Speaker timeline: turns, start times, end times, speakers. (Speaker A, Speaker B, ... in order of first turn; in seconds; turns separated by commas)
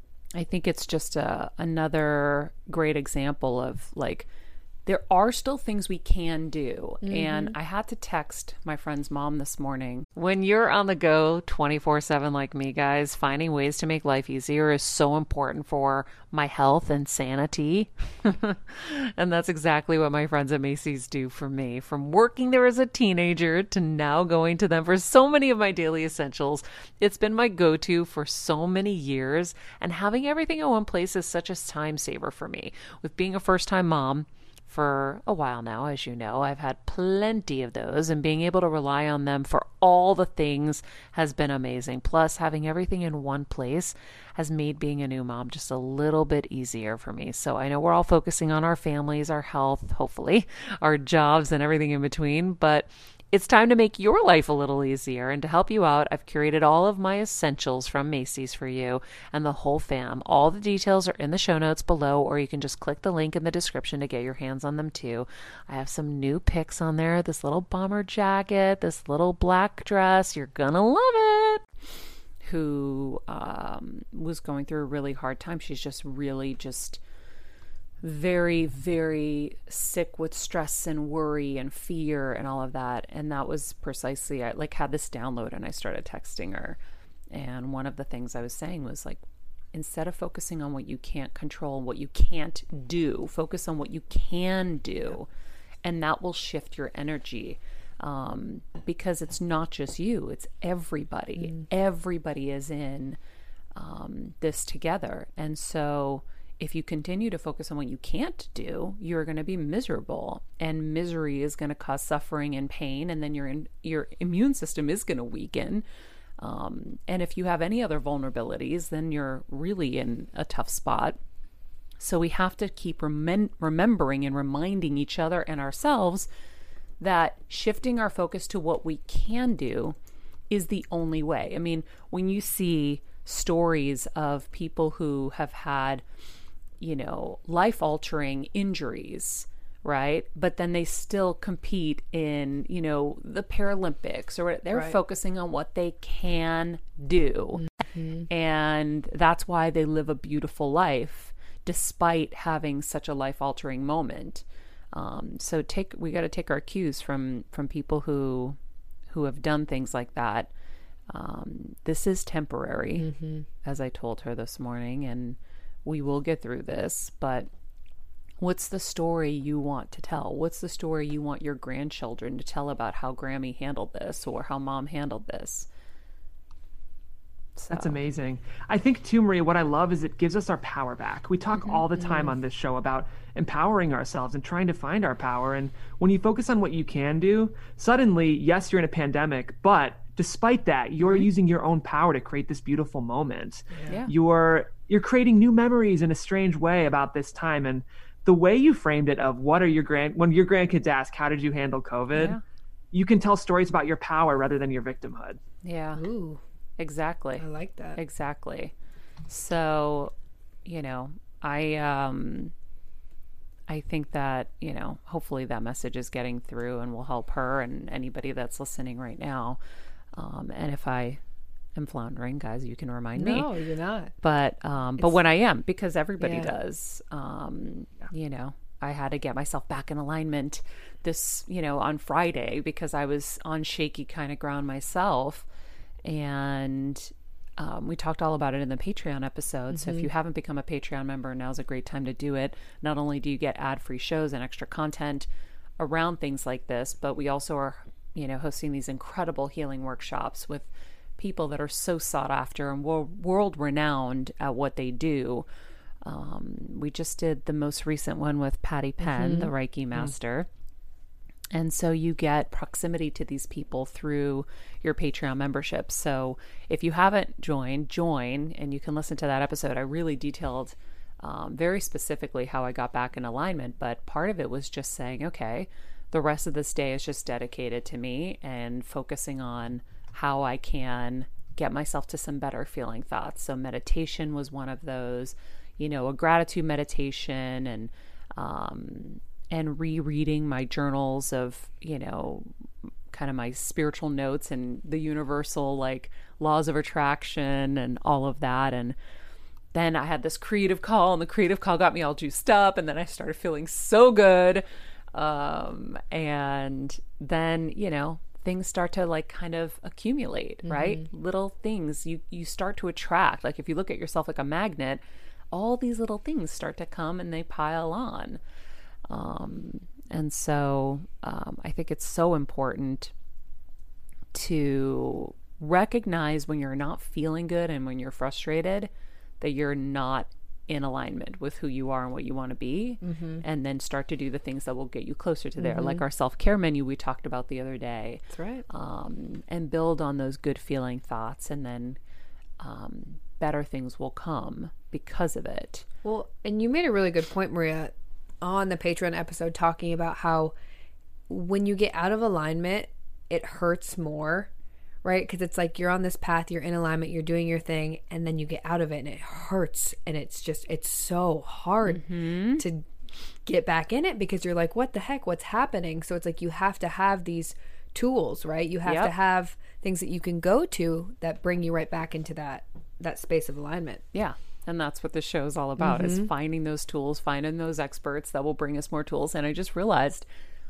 Speaker A: 0.3-4.3, Speaker A: 4.9-71.6, Speaker B: 7.0-7.5, Speaker A: 72.4-77.0, Speaker A: 78.0-86.8, Speaker A: 87.3-89.2, Speaker A: 89.7-95.3, Speaker A: 95.8-103.2, Speaker A: 103.8-115.8, Speaker A: 116.4-121.2, Speaker A: 122.0-126.3, Speaker A: 127.0-130.0, Speaker A: 130.5-136.1, Speaker A: 136.8-147.7, Speaker B: 147.9-148.2, Speaker A: 148.3-158.6, Speaker A: 159.1-160.5, Speaker A: 161.1-163.1, Speaker B: 163.0-163.4, Speaker A: 163.6-167.5, Speaker A: 168.4-175.7, Speaker A: 177.6-178.0, Speaker C: 177.7-202.4, Speaker A: 193.9-194.1, Speaker A: 202.1-202.4, Speaker C: 202.9-205.4, Speaker A: 205.6-206.0, Speaker B: 206.0-206.4, Speaker A: 206.8-208.7, Speaker B: 207.4-208.0, Speaker A: 209.3-210.1, Speaker A: 210.7-212.5, Speaker A: 213.7-219.6, Speaker A: 220.1-221.2, Speaker A: 221.8-223.5, Speaker B: 223.2-224.1, Speaker A: 224.2-235.5, Speaker B: 226.2-226.5, Speaker A: 236.1-255.5, Speaker B: 239.7-240.1, Speaker A: 256.0-260.5, Speaker B: 259.2-259.5, Speaker A: 261.5-292.5, Speaker A: 293.1-299.0, Speaker A: 299.7-318.4, Speaker B: 310.7-311.0, Speaker A: 319.1-323.1, Speaker A: 324.3-342.0, Speaker B: 333.0-333.4, Speaker B: 335.6-336.0, Speaker B: 338.3-338.6, Speaker A: 342.6-345.9, Speaker B: 346.0-350.6, Speaker B: 351.3-354.5, Speaker B: 355.0-362.0, Speaker A: 361.9-362.6, Speaker B: 362.6-362.9, Speaker B: 363.4-374.0, Speaker A: 368.8-369.1, Speaker A: 374.1-380.3, Speaker B: 375.8-376.3